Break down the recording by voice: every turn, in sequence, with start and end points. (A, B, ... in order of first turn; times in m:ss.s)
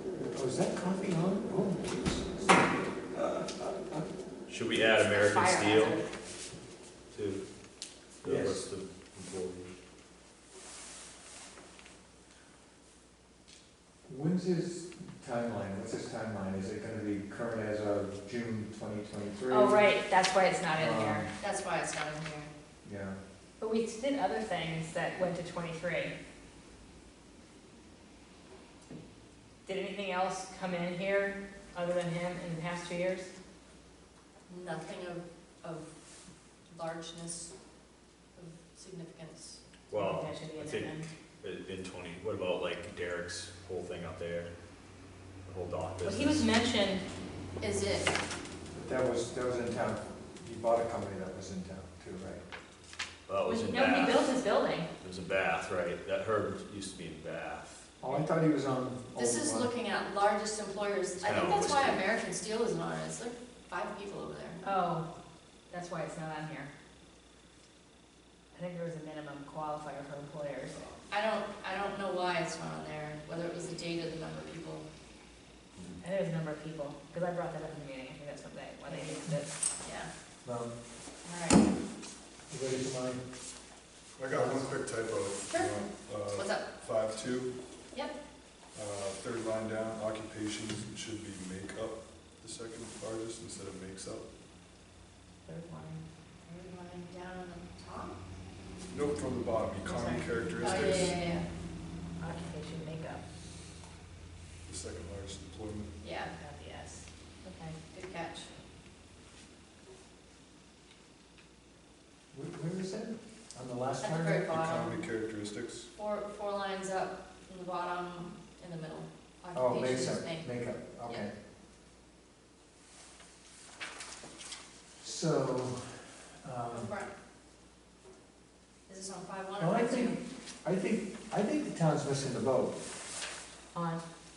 0:00.2-0:04.1 A
0:04.5-0:06.0 B
0:05.0-0:06.1 C
0:07.1-0:07.4 B
0:08.2-0:09.7 B
0:08.2-0:08.6 A
0:14.1-0:19.9 A
0:19.5-0:21.3 C
0:20.8-0:21.3 A
0:21.4-0:22.5 D
0:22.8-0:23.2 A
0:23.6-0:26.2 C
0:29.6-0:33.3 C
0:34.5-0:35.9 D
0:36.7-0:37.6 D
0:38.4-0:39.6 D
0:39.9-0:44.5 B
0:40.0-0:41.1 C
0:45.5-0:46.5 B
0:46.0-0:47.0 C
0:47.6-0:48.1 D
0:48.7-0:52.4 A
0:53.3-0:54.4 B
0:53.5-0:54.9 C
0:55.0-0:57.9 B
0:58.0-0:59.7 A
0:59.2-1:04.6 D
1:01.2-1:02.1 B
1:04.6-1:05.1 C
1:05.7-1:06.7 C
1:08.5-1:10.9 C
1:11.1-1:14.8 D
1:16.0-1:19.6 C
1:18.9-1:19.2 D
1:19.8-1:20.1 D
1:20.4-1:20.7 A
1:21.2-1:21.7 D
1:22.5-1:23.2 A
1:24.2-1:27.5 E
1:24.3-1:24.7 A
1:25.5-1:26.7 D
1:28.7-1:34.3 E
1:35.5-1:36.0 C
1:36.5-1:38.2 D
1:38.9-1:41.2 E
1:39.8-1:41.5 D
1:42.2-1:43.2 C
1:44.7-1:45.9 E
1:46.0-1:46.3 D
1:46.4-1:47.8 C
1:47.9-1:48.5 D
1:52.3-1:54.5 A
1:54.0-1:55.0 D
1:54.5-1:55.9 E
1:56.0-2:00.5 D
1:59.5-2:01.4 A
2:05.0-2:06.9 A
2:06.7-2:07.1 D
2:08.9-2:10.2 D
2:09.6-2:12.8 A
2:13.7-2:14.0 C